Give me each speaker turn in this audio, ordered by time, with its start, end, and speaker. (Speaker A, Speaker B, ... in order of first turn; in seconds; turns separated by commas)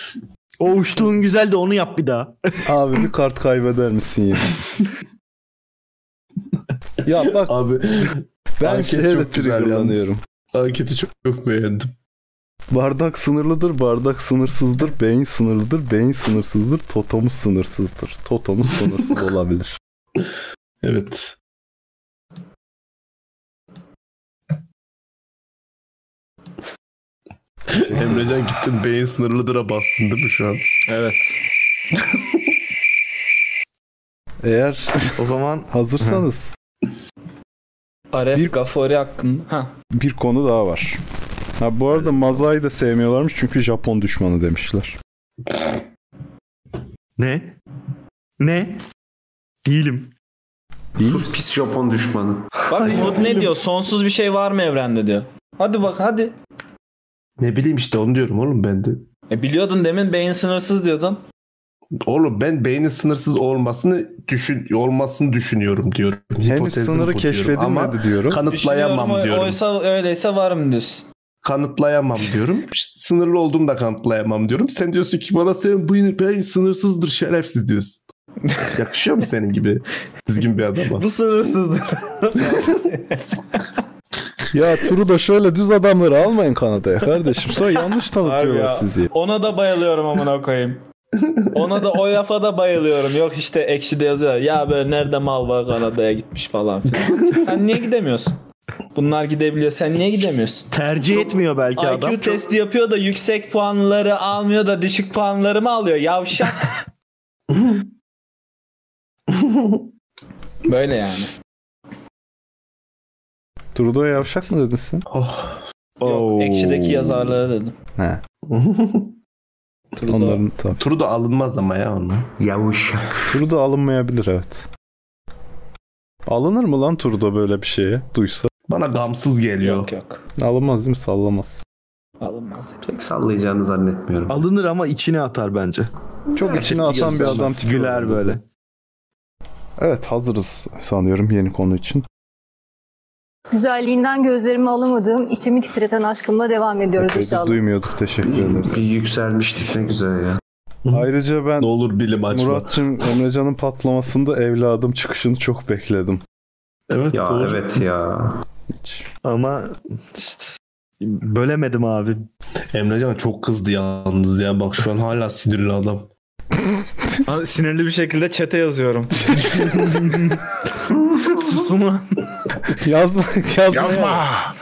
Speaker A: 0.6-2.6, Speaker B: 2.6-4.6, Speaker B: 7.0-7.6, Speaker C: 7.2-11.9, Speaker B: 8.6-10.2, Speaker B: 12.7-19.8, Speaker C: 20.8-21.4, Speaker C: 27.7-30.7, Speaker B: 27.7-28.3, Speaker D: 30.9-31.4, Speaker B: 34.4-35.2, Speaker A: 35.2-36.2, Speaker B: 35.7-36.6, Speaker D: 38.1-39.7, Speaker B: 39.9-41.0, Speaker B: 41.6-45.0, Speaker A: 47.2-47.5, Speaker A: 48.4-48.8, Speaker A: 49.6-50.1, Speaker B: 51.0-51.3, Speaker E: 51.0-52.5, Speaker D: 52.7-56.3, Speaker A: 52.8-53.5, Speaker C: 57.4-59.1, Speaker D: 59.3-61.2, Speaker C: 62.0-69.6, Speaker B: 66.4-68.4, Speaker D: 68.5-71.1, Speaker C: 71.4-78.0, Speaker C: 78.7-81.1, Speaker D: 81.0-83.7, Speaker B: 84.5-89.1, Speaker D: 88.2-90.8, Speaker D: 91.4-98.4, Speaker D: 99.0-106.8, Speaker A: 100.7-102.4, Speaker C: 107.5-107.8, Speaker C: 109.3-109.8, Speaker D: 110.7-111.3, Speaker B: 113.8-115.0, Speaker C: 115.1-115.6, Speaker A: 116.0-117.4, Speaker D: 116.0-117.8, Speaker B: 118.0-118.2, Speaker C: 118.5-119.2, Speaker D: 120.0-120.4, Speaker B: 120.0-120.8, Speaker C: 120.8-122.3, Speaker E: 122.4-123.3, Speaker B: 123.3-124.7, Speaker B: 126.3-128.5, Speaker C: 128.7-129.9, Speaker D: 129.6-130.2, Speaker B: 130.4-131.6, Speaker D: 132.2-132.8, Speaker E: 132.8-134.4, Speaker A: 134.3-135.9, Speaker B: 136.3-138.4, Speaker A: 136.4-138.4, Speaker C: 136.9-137.4, Speaker B: 139.8-142.1, Speaker F: 143.5-147.6, Speaker B: 147.0-148.8, Speaker E: 148.2-150.4, Speaker B: 150.9-151.7, Speaker C: 151.6-152.8, Speaker B: 152.3-156.2, Speaker C: 156.9-157.8, Speaker E: 157.1-158.4, Speaker B: 158.7-159.1, Speaker A: 159.2-162.3, Speaker C: 162.7-166.1, Speaker D: 167.2-170.0, Speaker D: 171.2-172.3, Speaker B: 172.8-174.3